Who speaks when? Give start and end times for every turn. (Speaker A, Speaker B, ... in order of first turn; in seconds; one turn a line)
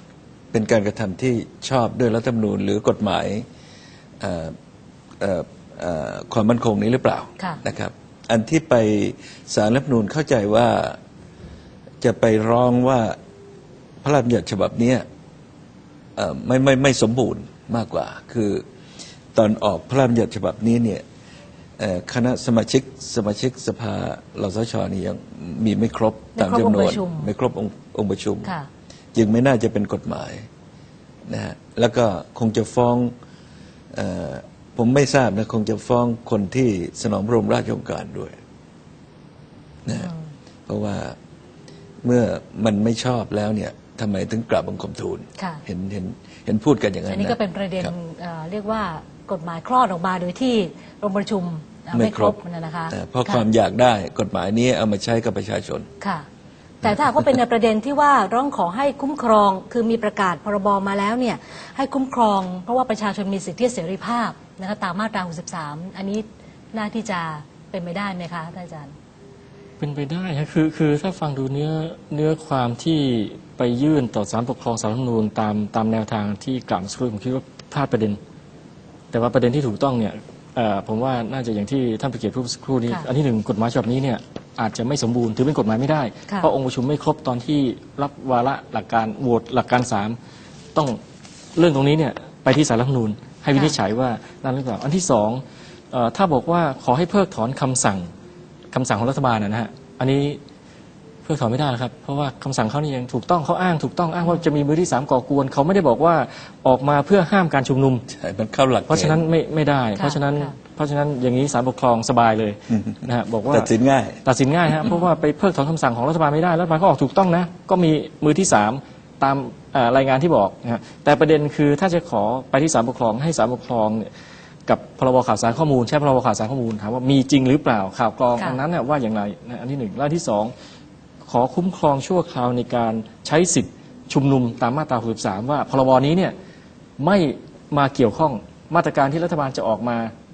Speaker A: 0.5-3.5
Speaker A: 4.2-4.5
Speaker A: 5.2-11.0
Speaker A: 12.0-13.2
Speaker A: 14.0-15.0
Speaker A: 16.1-18.6
Speaker A: 19.3-21.0
Speaker A: 21.8-28.5
Speaker B: 26.3-27.3
Speaker A: 29.1-30.4
Speaker A: 31.3-33.1
Speaker A: 33.9-38.4
Speaker A: 39.8-40.1
Speaker B: 39.9-40.2
Speaker A: 40.7-41.1
Speaker A: 42.0-47.9
Speaker B: 45.4-45.6
Speaker B: 47.1-53.4
Speaker A: 51.9-52.4
Speaker A: 52.9-55.9
Speaker B: 56.0-56.2
Speaker B: 56.8-68.9
Speaker C: 69.8-78.2
Speaker C: 79.1-90.2
Speaker C: 91.5-98.1
Speaker C: 98.7-100.4
Speaker C: 101.2-108.0
Speaker A: 108.1-109.2
Speaker C: 108.9-113.7
Speaker B: 110.0-110.5
Speaker A: 112.7-114.2
Speaker C: 114.2-124.1
Speaker C: 124.7-130.5
Speaker C: 131.3-136.3
Speaker C: 137.0-140.1